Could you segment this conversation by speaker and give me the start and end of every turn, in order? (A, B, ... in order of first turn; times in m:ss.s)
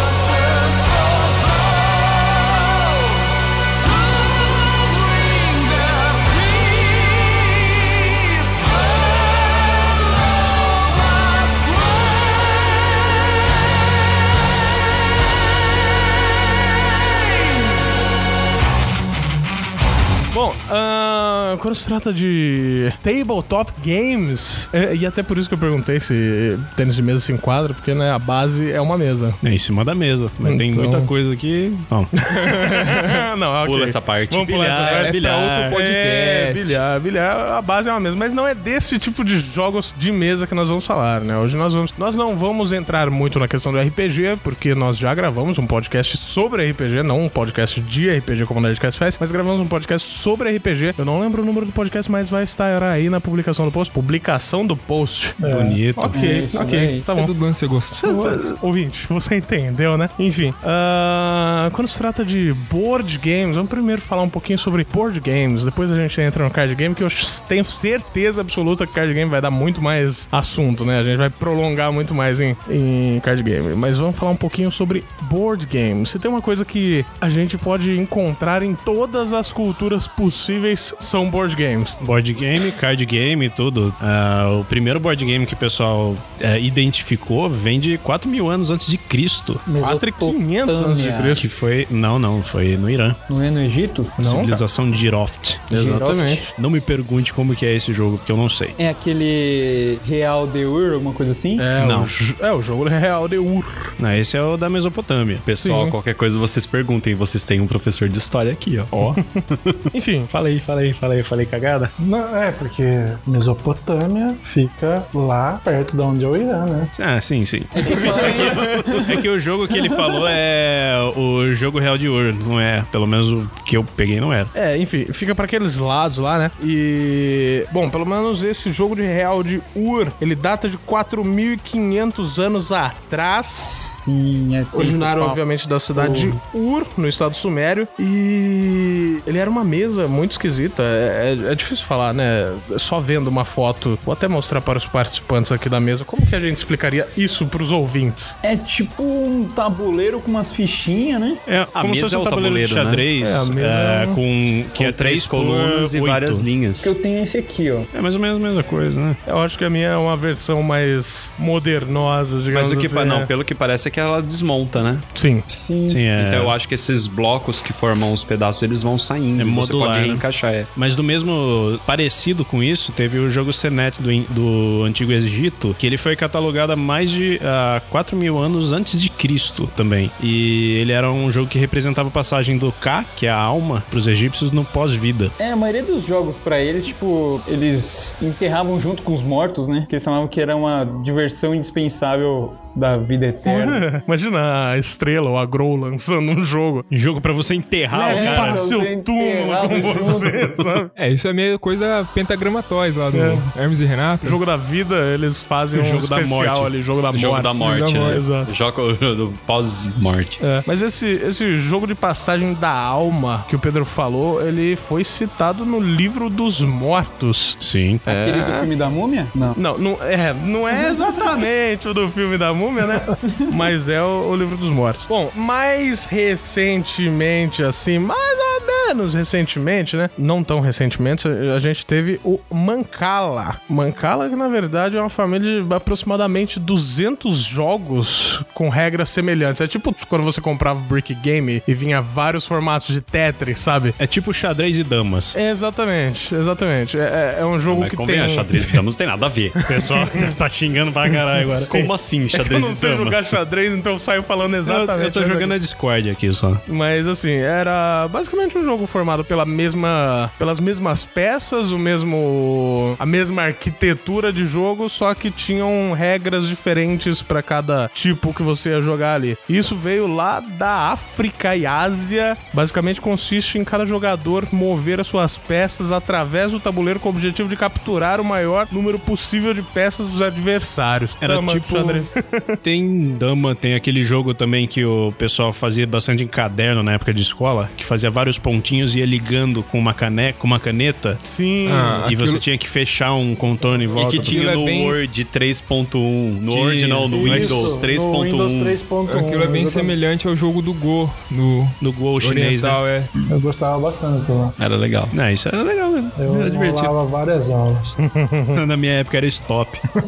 0:20.3-0:29.4 A
0:29.4-0:32.1 B
0:30.4-0:31.1 A
0:32.2-0:55.4 A
0:33.6-0:34.5 C
0:34.5-0:35.7 B
0:34.8-0:36.8 D
0:55.4-0:55.8 E
0:55.4-0:56.2 B
0:55.9-0:57.3 A
0:56.1-0:57.0 F
0:57.1-0:58.5 D
0:57.9-1:22.0 A
1:22.0-1:29.6 B
1:29.6-1:31.4 F
1:29.8-1:31.4 A
1:31.4-1:33.2 B
1:33.3-1:34.2 F
1:34.2-1:34.6 A
1:34.2-1:38.8 B
1:35.7-1:36.5 A
1:38.8-1:41.7 F
1:41.6-1:43.9 A
1:41.8-1:42.1 B
1:44.0-1:45.4 B
1:45.4-1:49.8 C
1:45.6-1:45.9 A
1:49.0-1:51.9 A
1:52.0-1:56.9 E
1:56.9-2:04.5 B
1:57.7-2:00.3 F
2:04.5-2:13.8 A
2:13.7-2:15.4 F
2:14.7-2:28.4 A
2:15.9-2:16.4 F
2:28.4-2:31.4 F
2:31.5-2:36.5 B
2:31.7-2:33.0 C
2:33.2-2:34.2 A
2:34.8-2:36.9 C
2:36.8-2:37.9 F
2:37.9-2:39.2 B
2:39.2-2:43.3 A
2:42.5-2:45.0 C
2:45.1-2:45.4 A
2:45.5-2:46.0 F
2:45.9-2:46.5 B
2:46.1-2:50.7 C
2:49.4-3:05.3 B
3:05.4-3:13.9 F
3:13.4-3:16.8 A
3:16.9-3:18.7 B
3:17.9-3:20.9 A
3:17.9-3:20.6 F
3:20.9-3:24.4 D
3:23.1-3:23.5 A
3:24.2-3:28.5 A
3:25.7-3:26.7 B
3:27.1-3:30.4 C
3:27.6-3:28.2 D
3:30.4-3:38.7 A
3:37.6-3:38.0 B
3:38.0-3:39.6 F
3:39.6-4:04.0 A
3:43.2-3:43.5 F
4:04.0-4:05.4 B
4:05.3-4:08.8 A
4:07.7-4:09.6 C
4:09.6-4:10.3 A
4:09.6-4:11.7 B
4:11.1-4:15.5 A
4:11.7-4:13.4 C
4:14.6-4:16.6 B
4:16.7-4:42.6 A
4:41.2-4:42.1 B
4:42.6-4:51.2 B
4:51.2-4:52.0 A
4:51.6-4:52.4 D
4:52.0-4:54.4 B
4:53.9-4:58.8 C
4:54.1-4:55.0 D
4:56.5-4:57.7 B
4:57.1-5:00.0 E
4:59.0-5:03.1 D
5:01.8-5:02.8 B
5:03.3-5:04.5 E
5:04.6-5:05.1 C
5:05.1-5:06.9 B
5:06.1-5:08.0 E
5:08.0-5:08.6 A
5:08.5-5:09.8 B